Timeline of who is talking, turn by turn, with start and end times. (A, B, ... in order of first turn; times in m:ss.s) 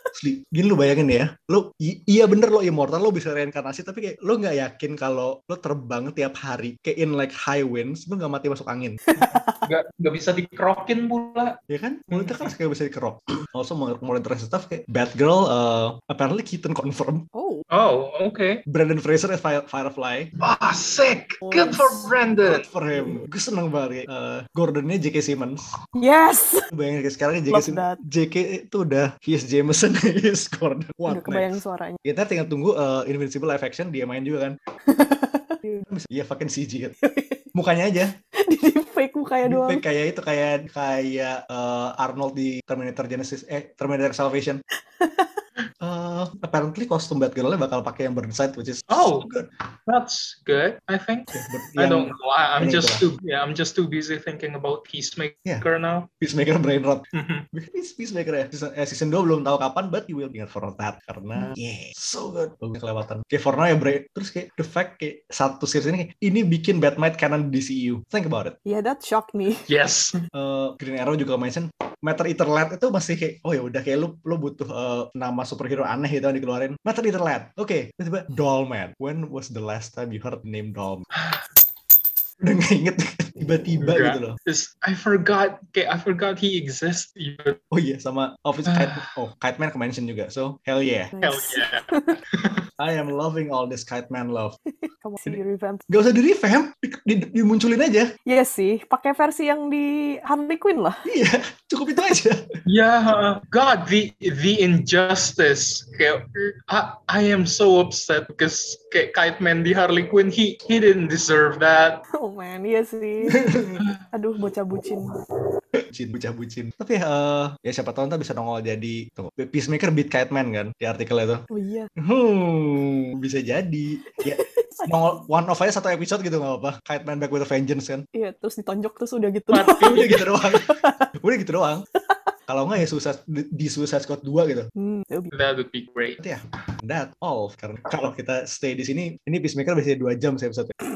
0:00.1-0:09.0 A
0:09.1-0:09.6 B
0:09.6-0:11.6 C
0:11.7-0:17.2 A
0:12.1-0:12.5 C
0:17.3-0:17.6 B
0:17.7-0:18.6 C
0:18.7-0:20.3 A
0:20.4-0:22.6 C
0:21.4-0:22.1 B
0:22.4-0:25.7 A
0:26.0-0:26.7 B
0:26.7-0:34.6 A
0:27.5-0:28.0 B
0:31.1-0:32.0 B
0:34.9-0:35.9 B
0:35.9-0:37.0 A
0:37.0-0:37.5 B
0:37.5-0:38.1 A
0:38.3-0:39.8 B
0:39.4-0:44.6 A
0:45.0-0:45.4 B
0:45.8-0:49.5 A
0:48.9-0:49.3 C
0:49.9-0:56.1 C
0:51.3-0:53.0 A
0:56.2-1:08.6 A
0:57.1-0:57.4 C
1:08.6-1:09.7 B
1:09.7-1:10.2 C
1:10.3-1:21.1 A
1:21.2-1:21.4 C
1:22.4-1:24.4 A
1:23.8-1:27.6 C
1:27.7-1:31.1 A
1:28.7-1:29.1 C
1:31.1-1:32.2 B
1:31.2-1:32.6 C
1:32.8-1:34.6 A
1:34.8-1:35.8 B
1:35.2-1:38.1 A
1:38.3-1:41.0 B
1:41.0-1:42.4 A
1:42.6-1:52.0 C
1:52.1-1:53.4 B
1:53.3-1:53.8 A
1:54.1-1:55.2 B
1:55.7-2:01.4 A
2:01.5-2:01.9 B
2:02.0-2:08.0 A
2:04.1-2:04.9 B
2:08.1-2:11.1 B
2:09.5-2:10.2 C
2:09.8-2:11.8 A
2:12.5-2:14.7 A
2:14.8-2:15.3 B
2:15.3-2:16.2 C
2:16.2-2:20.7 A